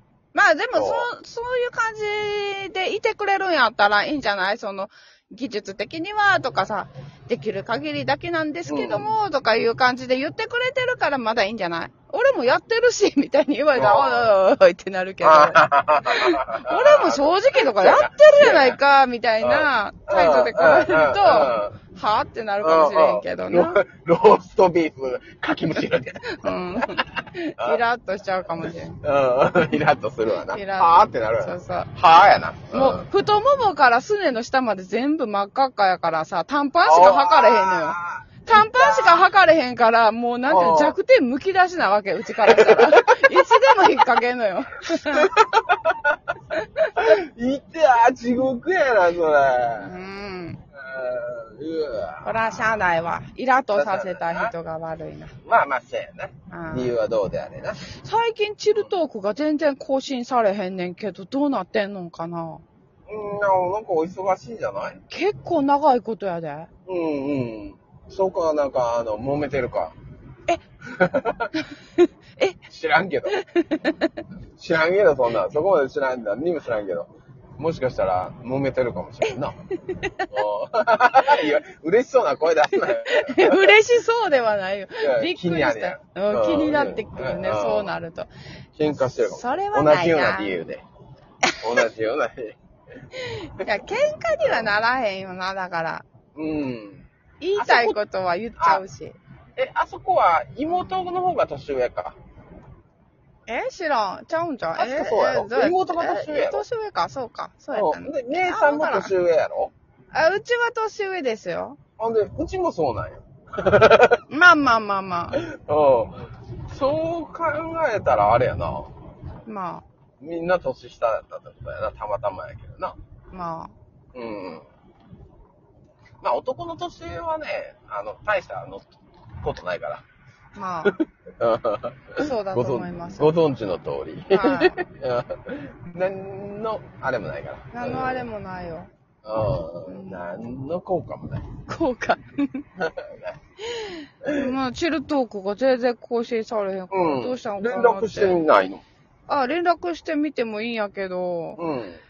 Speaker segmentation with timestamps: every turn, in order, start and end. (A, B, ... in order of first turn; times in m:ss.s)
0:00.3-0:23.8 A
0:00.7-0:01.1 B
0:08.7-0:09.1 B
0:13.8-0:14.3 B
0:15.2-0:18.8 B
0:19.4-0:21.8 B
0:22.6-0:27.8 B
0:26.3-0:29.0 A
0:28.6-0:33.1 B
0:30.5-0:31.9 A
0:32.7-0:45.3 A
0:36.8-0:39.3 B
0:40.5-0:41.0 B
0:42.4-0:43.5 B
0:45.0-0:46.3 B
0:46.5-0:47.0 A
0:47.0-0:50.0 B
0:49.8-0:50.6 A
0:50.7-0:52.8 B
0:52.2-0:55.4 A
0:53.7-0:54.5 B
0:55.4-0:57.8 B
0:56.5-0:56.9 A
0:57.8-1:02.6 A
1:03.1-1:05.0 B
1:05.1-1:06.7 A
1:06.9-1:10.0 B
1:10.9-1:11.5 B
1:11.6-1:12.6 A
1:12.7-1:13.4 B
1:13.3-1:14.2 A
1:14.6-1:19.6 B
1:19.2-1:20.3 A
1:20.3-1:23.7 B
1:22.9-1:28.3 A
1:25.0-1:27.9 B
1:28.8-1:30.8 B
1:29.1-1:30.7 A
1:31.5-1:31.8 A
1:31.6-1:32.6 B
1:33.2-1:36.1 A
1:34.4-1:34.7 B
1:36.4-1:37.1 B
1:37.4-1:39.2 A
1:37.6-1:38.0 B
1:38.6-1:38.8 B
1:39.6-1:42.2 B
1:43.5-1:49.1 A
1:44.8-1:46.7 B
1:47.7-1:49.7 B
1:50.1-1:51.8 A
1:52.0-1:54.2 B
1:54.3-1:55.4 A
1:55.3-1:58.9 B
1:59.5-1:59.8 A
2:00.2-2:03.0 B
2:03.3-2:03.7 A
2:04.1-2:04.6 B
2:06.2-2:10.0 B
2:10.6-2:11.0 A
2:10.8-2:18.3 B
2:12.2-2:13.3 A
2:14.3-2:14.8 A
2:17.7-2:18.9 A
2:19.2-2:21.5 B
2:19.9-2:20.5 A
2:21.7-2:22.7 A
2:22.8-2:23.4 B
2:23.7-2:28.4 A
2:24.2-2:24.6 B
2:26.9-2:28.8 B
2:29.3-2:31.6 A
2:31.6-2:32.0 B